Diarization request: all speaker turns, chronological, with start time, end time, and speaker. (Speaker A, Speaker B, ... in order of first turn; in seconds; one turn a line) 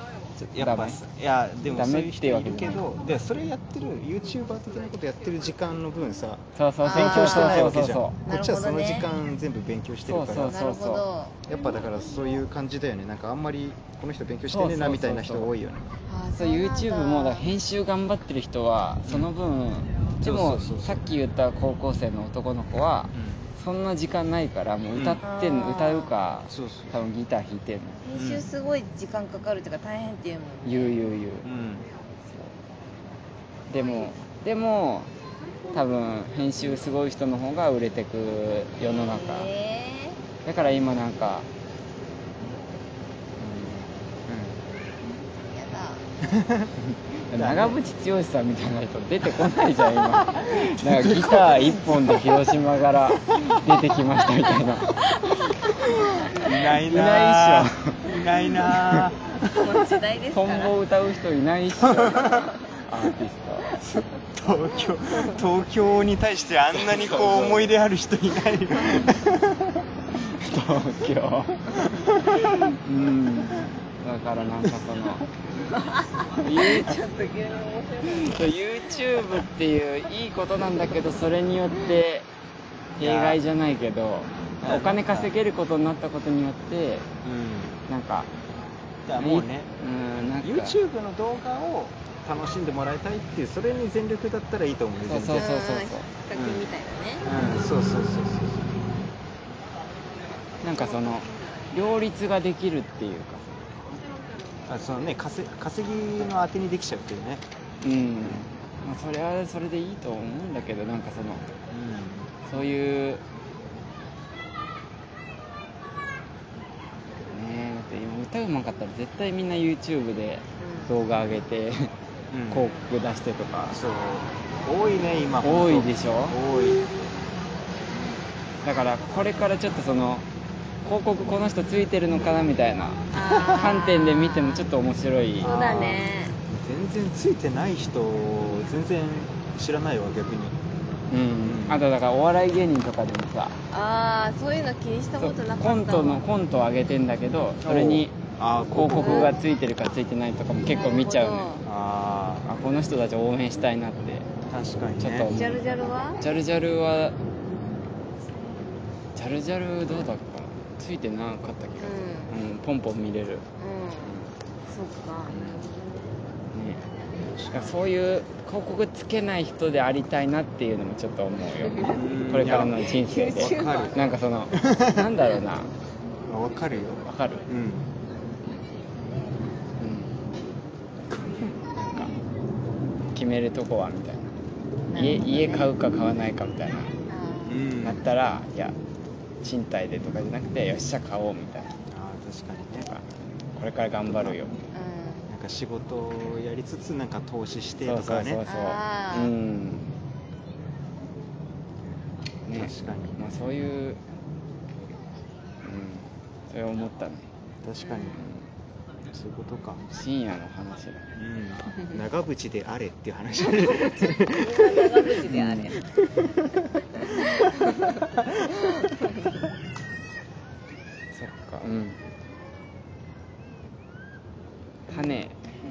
Speaker A: 0.5-1.0
Speaker B: 0.5-10.6
Speaker A: 1.6-2.8
Speaker A: 6.5-8.2
Speaker C: 6.8-7.7
Speaker C: 8.2-9.1
Speaker A: 10.1-11.1
Speaker C: 10.4-11.4
Speaker B: 11.4-15.9
Speaker A: 14.5-15.5
Speaker C: 16.0-17.5
Speaker A: 16.4-28.0
Speaker B: 19.0-19.3
Speaker B: 20.2-21.0
Speaker B: 23.1-23.4
Speaker B: 24.9-25.2
Speaker C: 25.2-26.1
Speaker B: 26.5-27.0
Speaker C: 28.0-31.0
Speaker B: 28.1-28.4
Speaker A: 30.6-31.5
Speaker B: 31.4-31.9
Speaker A: 32.2-32.5
Speaker A: 33.7-35.1
Speaker C: 33.8-34.1
Speaker A: 35.7-39.5
Speaker C: 39.1-40.2
Speaker A: 40.4-41.5
Speaker B: 43.4-44.6
Speaker C: 45.5-46.0
Speaker B: 46.2-46.7
Speaker A: 46.9-55.0
Speaker B: 47.3-47.8
Speaker B: 50.8-52.6
Speaker B: 53.1-53.6
Speaker C: 55.1-56.5
Speaker B: 56.3-59.5
Speaker A: 56.5-58.1
Speaker A: 58.6-59.1
Speaker C: 59.5-60.7
Speaker A: 60.3-63.8
Speaker B: 61.8-62.5
Speaker C: 62.3-62.7
Speaker B: 63.8-69.8
Speaker A: 66.7-67.7
Speaker A: 70.3-71.8
Speaker B: 71.7-72.7
Speaker A: 72.4-75.2
Speaker C: 75.4-78.6
Speaker A: 76.3-77.0
Speaker A: 78.1-82.3
Speaker A: 83.0-87.1
Speaker B: 83.0-83.4
Speaker B: 84.6-85.3
Speaker B: 87.2-87.8
Speaker A: 87.9-88.3
Speaker B: 89.0-89.7
Speaker A: 89.2-90.8
Speaker B: 90.4-95.5
Speaker A: 95.0-96.7
Speaker C: 95.3-97.2
Speaker A: 97.2-97.7
Speaker B: 97.2-98.8
Speaker A: 100.6-103.6
Speaker B: 104.7-107.4
Speaker A: 107.8-111.6
Speaker B: 111.7-112.3
Speaker A: 112.5-113.2
Speaker A: 117.3-121.9
Speaker C: 120.6-120.9
Speaker B: 122.3-122.7
Speaker A: 122.5-123.8
Speaker B: 123.7-126.9
Speaker A: 125.4-126.4
Speaker A: 128.6-130.2
Speaker A: 130.8-135.9
Speaker C: 133.1-134.6
Speaker B: 135.4-140.5
Speaker C: 135.4-136.3
Speaker A: 141.1-143.6
Speaker B: 141.4-141.8
Speaker C: 143.7-146.2
Speaker A: 145.2-148.2
Speaker B: 147.6-149.3
Speaker A: 148.7-151.6
Speaker C: 149.0-149.3
Speaker C: 150.7-151.6
Speaker B: 151.6-152.5
Speaker A: 152.4-154.3
Speaker B: 154.5-155.3
Speaker A: 155.0-157.2
Speaker C: 155.3-156.2
Speaker A: 159.1-163.4
Speaker C: 161.8-162.3
Speaker C: 163.6-164.1
Speaker A: 164.0-164.3
Speaker C: 164.7-166.0
Speaker A: 165.3-165.7
Speaker A: 166.5-166.8
Speaker B: 167.2-167.8
Speaker A: 167.5-175.7
Speaker C: 171.6-172.2
Speaker B: 171.9-175.1
Speaker C: 172.8-173.9
Speaker B: 176.3-177.9
Speaker A: 177.1-177.4
Speaker A: 179.8-180.1
Speaker B: 181.1-181.7
Speaker A: 183.1-184.3
Speaker C: 184.9-185.7
Speaker A: 184.9-186.9
Speaker C: 187.1-187.6
Speaker B: 187.5-188.1
Speaker A: 187.8-188.8
Speaker A: 189.4-191.8
Speaker B: 191.9-192.9
Speaker A: 192.8-194.5
Speaker B: 194.1-194.4
Speaker C: 194.7-195.3
Speaker B: 195.3-198.4
Speaker A: 197.8-199.9
Speaker C: 198.4-199.3
Speaker A: 202.4-204.0
Speaker B: 202.6-203.2
Speaker A: 205.6-207.3
Speaker B: 207.6-208.3
Speaker C: 207.8-208.3
Speaker A: 208.2-208.4
Speaker B: 209.1-209.8
Speaker A: 209.9-211.1
Speaker B: 211.2-218.7
Speaker C: 213.7-215.8
Speaker A: 215.3-215.7
Speaker C: 217.0-218.0
Speaker C: 218.7-219.3
Speaker A: 221.1-222.0
Speaker A: 224.9-225.4